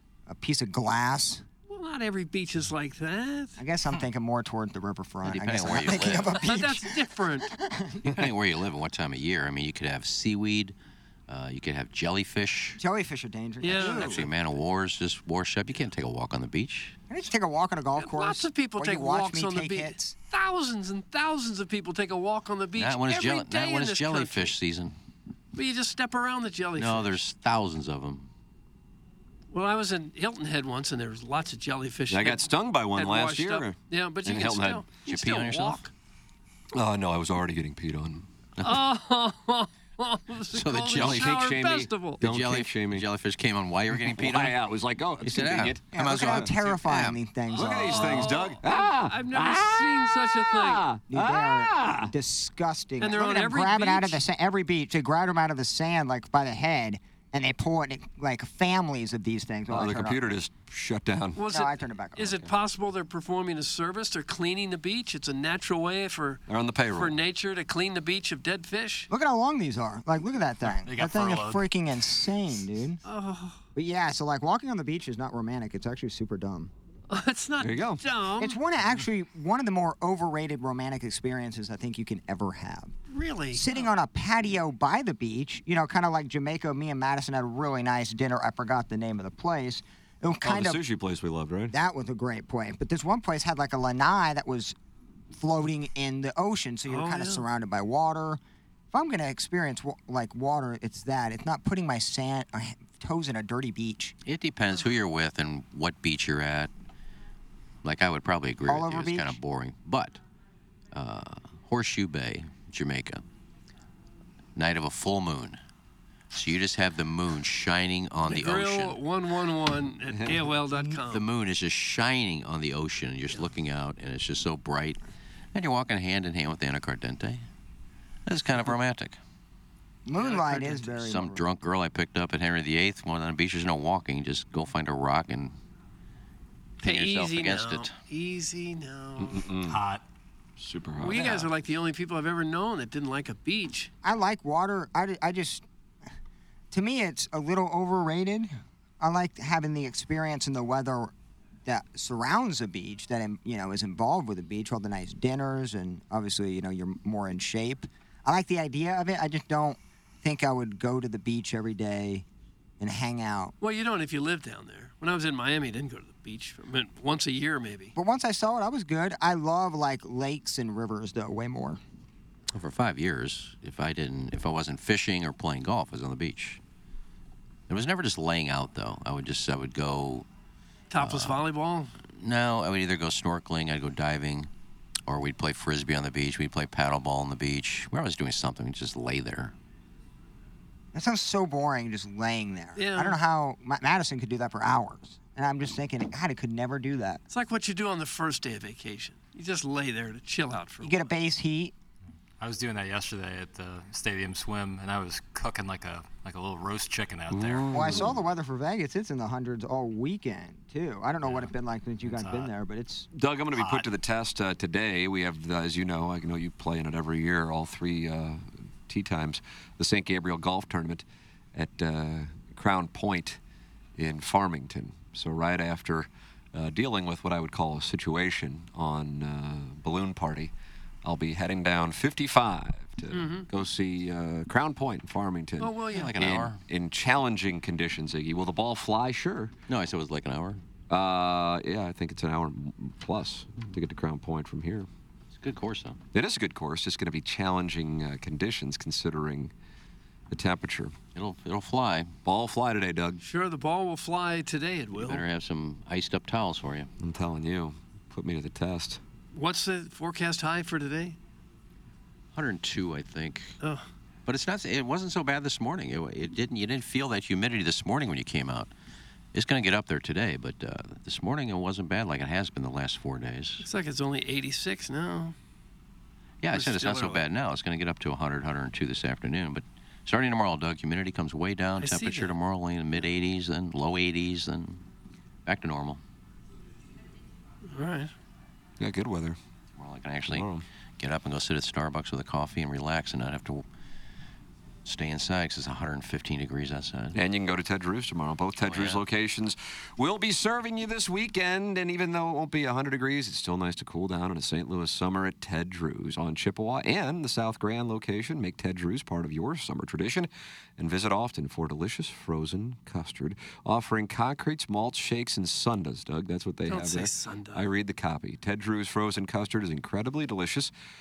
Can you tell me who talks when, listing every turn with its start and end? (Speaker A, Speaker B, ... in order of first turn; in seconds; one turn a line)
Speaker A: 0.3-1.4
Speaker B: 1.7-3.6
Speaker A: 3.6-8.1
Speaker C: 5.2-6.4
Speaker B: 6.3-7.5
Speaker C: 8.0-10.7
Speaker C: 11.3-12.8
Speaker A: 12.8-14.3
Speaker B: 13.6-14.2
Speaker C: 13.7-17.0
Speaker A: 17.1-20.1
Speaker B: 18.0-24.6
Speaker C: 22.8-24.9
Speaker B: 25.5-27.2
Speaker C: 26.8-28.3
Speaker B: 29.5-35.9
Speaker D: 32.1-34.9
Speaker C: 35.0-35.8
Speaker D: 36.7-38.3
Speaker C: 38.6-38.8
Speaker B: 38.6-42.2
Speaker C: 40.5-41.4
Speaker D: 40.9-43.1
Speaker C: 42.2-44.6
Speaker D: 43.9-46.5
Speaker C: 45.2-47.2
Speaker A: 45.9-48.3
Speaker D: 47.5-52.1
Speaker B: 47.6-50.8
Speaker A: 51.1-60.2
Speaker B: 53.0-54.2
Speaker D: 59.7-61.4
Speaker B: 61.4-69.1
Speaker A: 61.5-62.4
Speaker D: 66.5-67.2
Speaker A: 69.1-73.0
Speaker E: 70.7-71.7
Speaker B: 73.0-73.6
Speaker A: 73.7-76.7
Speaker B: 77.1-78.6
Speaker D: 77.6-78.0
Speaker A: 78.4-82.9
Speaker B: 83.1-83.9
Speaker A: 83.5-90.8
Speaker D: 90.4-91.7
Speaker A: 91.7-94.7
Speaker A: 95.3-98.4
Speaker B: 96.9-97.5
Speaker A: 98.9-104.1
Speaker C: 104.2-106.7
Speaker C: 107.8-110.2
Speaker A: 108.7-109.4
Speaker C: 110.9-113.2
Speaker C: 114.5-115.6
Speaker C: 116.3-119.0
Speaker B: 118.2-121.2
Speaker D: 120.1-120.5
Speaker C: 121.1-125.0
Speaker C: 125.5-127.5
Speaker C: 128.2-129.2
Speaker A: 130.1-131.4
Speaker B: 130.2-130.8
Speaker C: 130.9-135.5
Speaker C: 136.8-137.9
Speaker B: 136.8-139.4
Speaker D: 139.2-139.8
Speaker E: 139.7-140.0
Speaker D: 140.6-141.5
Speaker B: 141.0-143.9
Speaker A: 144.0-145.6
Speaker A: 146.7-151.1
Speaker A: 151.7-162.2
Speaker A: 162.8-163.5
Speaker B: 163.6-167.9
Speaker A: 167.9-171.8
Speaker C: 172.5-176.6
Speaker C: 177.7-180.2
Speaker B: 180.9-181.9
Speaker C: 181.0-181.4
Speaker C: 182.2-184.5
Speaker C: 185.1-189.5
Speaker A: 190.9-197.2
Speaker B: 192.8-193.2
Speaker B: 197.3-201.1
Speaker A: 200.8-201.7
Speaker E: 202.4-208.1
Speaker D: 207.3-208.2
Speaker A: 207.7-213.1
Speaker E: 211.2-211.5
Speaker E: 212.0-212.5
Speaker D: 213.1-223.4
Speaker E: 213.5-213.9
Speaker D: 224.0-230.5
Speaker D: 231.0-239.5
Speaker B: 233.1-233.5
Speaker B: 235.6-236.1
Speaker C: 235.9-236.6
Speaker C: 239.7-240.6
Speaker D: 240.9-244.9
Speaker C: 245.4-246.0
Speaker D: 246.1-249.5
Speaker D: 250.3-251.0
Speaker C: 251.1-252.1
Speaker D: 252.2-253.2
Speaker B: 253.2-255.2
Speaker C: 254.9-256.9
Speaker D: 257.0-259.0
Speaker B: 259.3-261.2
Speaker C: 262.3-263.5
Speaker C: 264.2-268.7
Speaker C: 269.3-273.6
Speaker B: 273.6-275.3
Speaker C: 276.4-284.8
Speaker B: 276.5-277.2
Speaker B: 281.8-282.3
Speaker C: 285.4-286.0
Speaker B: 287.7-288.1
Speaker D: 288.8-289.4
Speaker C: 289.8-290.5
Speaker D: 290.3-290.6
Speaker C: 291.0-293.6
Speaker C: 294.8-297.2
Speaker D: 297.1-320.7
Speaker C: 298.6-299.0
Speaker B: 316.6-317.7